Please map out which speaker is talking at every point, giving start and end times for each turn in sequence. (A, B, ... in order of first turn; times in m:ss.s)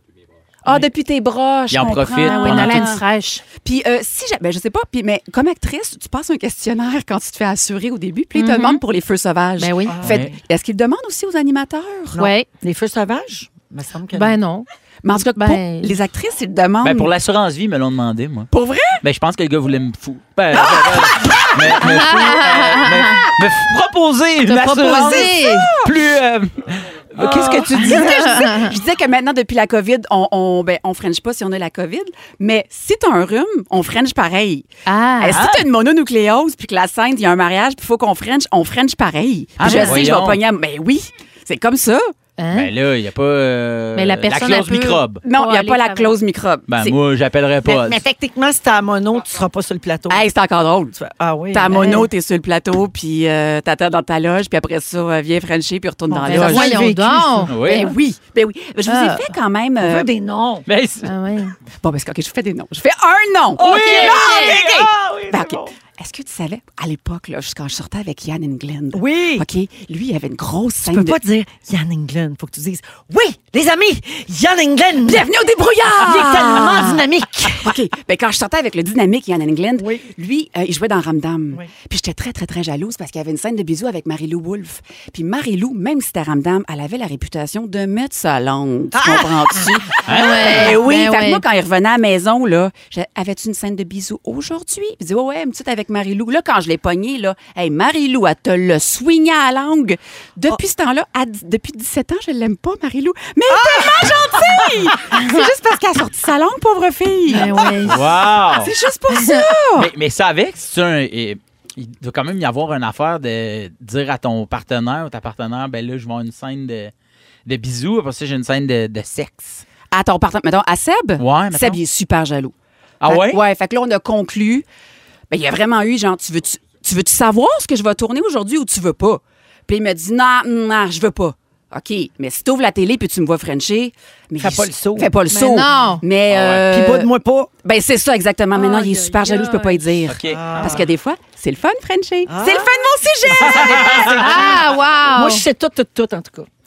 0:00.6-0:03.0 A
0:01.7-0:03.0 B
0:02.2-0:03.4 C
0:03.6-0:12.2 A
0:08.4-0:08.8 C
0:09.6-0:10.0 C
0:09.9-0:10.4 D
0:10.0-0:10.3 B
0:12.1-0:14.4 D
0:12.2-0:12.5 C
0:14.1-0:16.0 C
0:15.0-0:17.1 A
0:16.8-0:18.5 B
0:18.5-0:19.0 A
0:19.0-0:28.3 B
0:20.5-0:21.8 A
0:21.8-0:23.2 C
0:24.4-0:25.7 C
0:24.8-0:25.9 A
0:27.3-0:27.5 D
0:27.5-0:34.7 A
0:27.8-0:28.7 C
0:34.9-0:35.4 C
0:35.2-0:42.1 A
0:35.3-0:35.7 B
0:39.6-0:40.4 B
0:42.4-0:42.7 C
0:42.5-0:45.2 B
0:44.0-0:46.1 C
0:45.2-0:47.0 A
0:46.7-0:48.0 B
0:47.6-0:50.3 D
0:50.1-0:51.0 A
0:51.0-0:51.9 D
0:51.5-0:56.8 A
0:51.7-0:52.1 C
0:56.1-0:57.5 D
0:56.3-0:57.6 C
0:57.5-0:57.9 B
0:57.6-1:00.1 A
0:58.9-0:59.3 C
0:59.8-1:00.6 D
1:00.7-1:01.1 B
1:01.0-1:01.6 C
1:01.8-1:11.2 A
1:03.6-1:05.7 D
1:03.6-1:04.6 C
1:08.9-1:09.5 D
1:10.8-1:15.3 D
1:15.1-1:17.1 A
1:16.0-1:17.8 D
1:17.6-1:47.5 A
1:19.8-1:20.0 D
1:28.9-1:29.8 D
1:30.1-1:30.7 B
1:30.1-1:31.4 C
1:45.1-1:45.5 C
1:47.3-1:48.0 C
1:47.8-1:48.7 B
1:48.5-1:49.9 A
1:49.1-1:49.5 C
1:49.8-1:56.9 B
1:57.5-1:59.6 B
1:59.9-2:02.5 A
2:01.2-2:01.8 B
2:03.0-2:03.4 B
2:03.1-2:04.6 A
2:05.3-2:24.2 A
2:14.4-2:15.1 D
2:15.3-2:16.0 C
2:16.3-2:16.6 B
2:16.6-2:17.5 D
2:18.6-2:19.8 C
2:20.1-2:20.6 B
2:20.3-2:20.9 D
2:22.3-2:26.5 D
2:24.2-2:25.4 C